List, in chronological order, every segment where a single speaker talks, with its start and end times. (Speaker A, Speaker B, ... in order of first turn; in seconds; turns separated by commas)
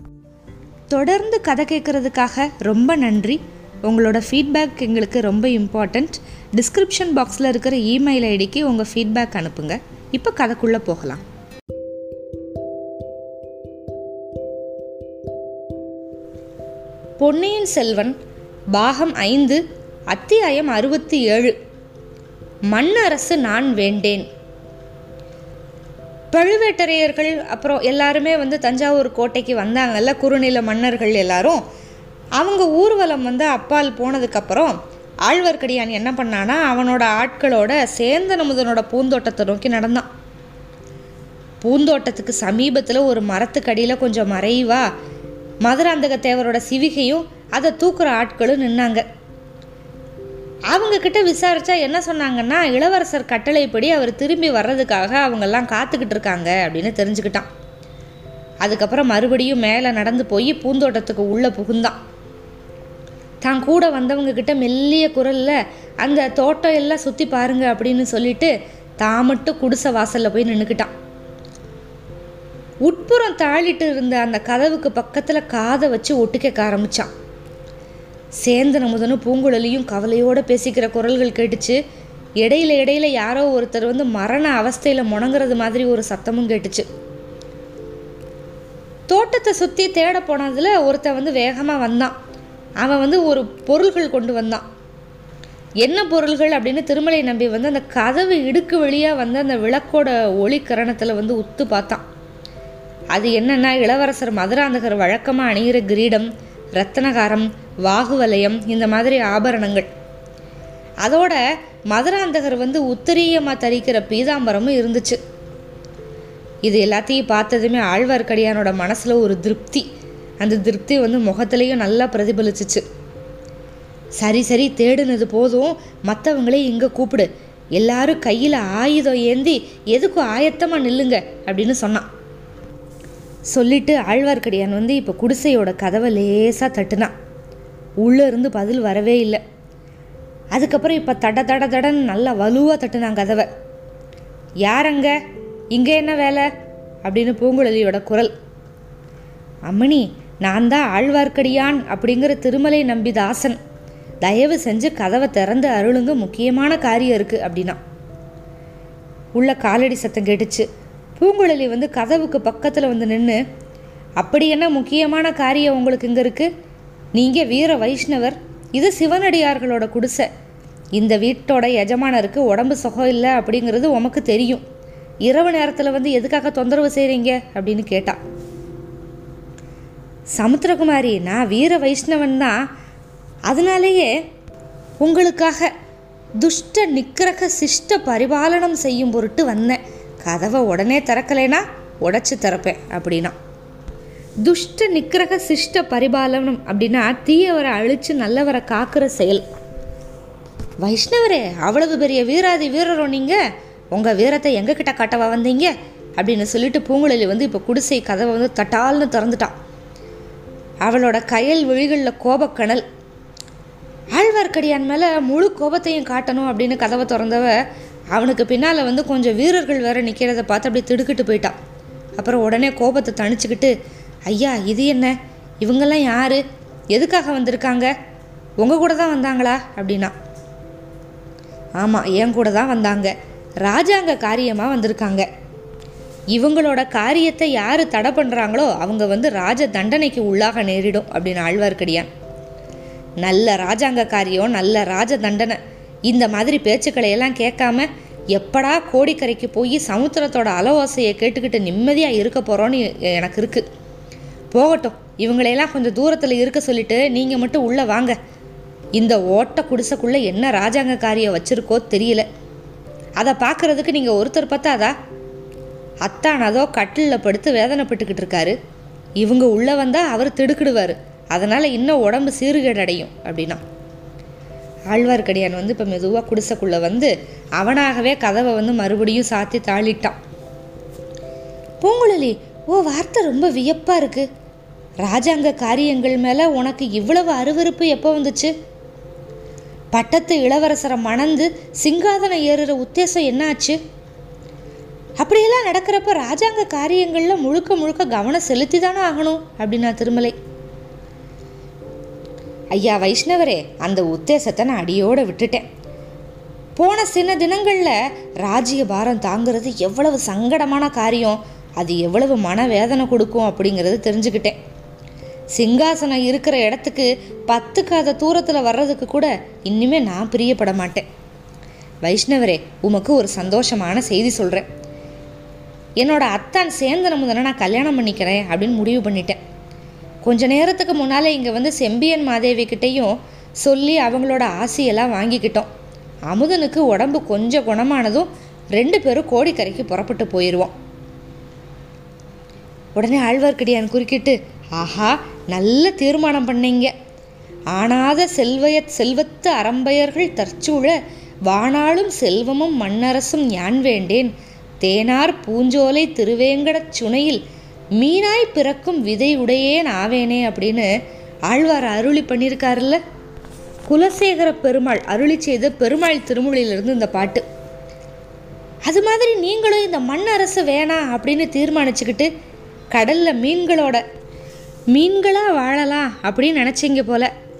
Speaker A: 0.9-11.2, Speaker A: 17.2-18.1, Speaker A: 18.7-21.5, Speaker A: 22.7-24.3, Speaker A: 26.3-31.6, Speaker A: 32.4-40.1, Speaker A: 41.6-44.8, Speaker A: 45.6-49.0, Speaker A: 50.7-57.5, Speaker A: 58.6-62.0, Speaker A: 63.4-70.9, Speaker A: 72.8-77.1, Speaker A: 78.4-81.8, Speaker A: 82.4-86.8, Speaker A: 89.1-92.1, Speaker A: 92.8-94.6, Speaker A: 95.8-102.0, Speaker A: 103.1-109.9, Speaker A: 111.0-115.2, Speaker A: 116.6-119.8, Speaker A: 120.4-122.8, Speaker A: 124.2-132.1, Speaker A: 133.5-137.1, Speaker A: 138.0-139.4, Speaker A: 140.5-143.5, Speaker A: 144.6-145.2, Speaker A: 145.7-146.5, Speaker A: 147.0-148.3, Speaker A: 149.7-153.6, Speaker A: 154.2-157.8, Speaker A: 159.3-163.4, Speaker A: 164.2-166.5, Speaker A: 167.1-170.3, Speaker A: 170.9-174.6, Speaker A: 175.2-178.2, Speaker A: 180.4-182.6, Speaker A: 183.5-184.1, Speaker A: 185.0-185.7, Speaker A: 186.4-193.3, Speaker A: 194.4-199.4, Speaker A: 200.8-203.4, Speaker A: 203.9-209.5, Speaker A: 210.8-212.8, Speaker A: 214.1-217.6, Speaker A: 218.1-221.6, Speaker A: 222.2-223.7, Speaker A: 224.3-226.4, Speaker A: 226.9-227.9, Speaker A: 228.6-230.1, Speaker A: 231.8-235.2, Speaker A: 236.3-242.1, Speaker A: 243.2-253.6, Speaker A: 254.5-258.2, Speaker A: 259.0-262.2, Speaker A: 263.2-264.9, Speaker A: 266.0-268.6, Speaker A: 269.2-273.6, Speaker A: 274.9-280.2, Speaker A: 281.8-284.3, Speaker A: 285.0-288.5, Speaker A: 289.9-293.8, Speaker A: 295.2-300.3, Speaker A: 302.7-305.6, Speaker A: 306.8-314.6, Speaker A: 315.5-321.0, Speaker A: 322.0-324.7, Speaker A: 326.0-329.4, Speaker A: 330.2-335.7, Speaker A: 336.3-340.7, Speaker A: 342.9-346.9, Speaker A: 347.7-351.0, Speaker A: 351.5-357.4, Speaker A: 358.0-360.9, Speaker A: 361.5-363.0, Speaker A: 363.9-367.4, Speaker A: 368.9-372.3, Speaker A: 372.9-374.0, Speaker A: 374.9-377.3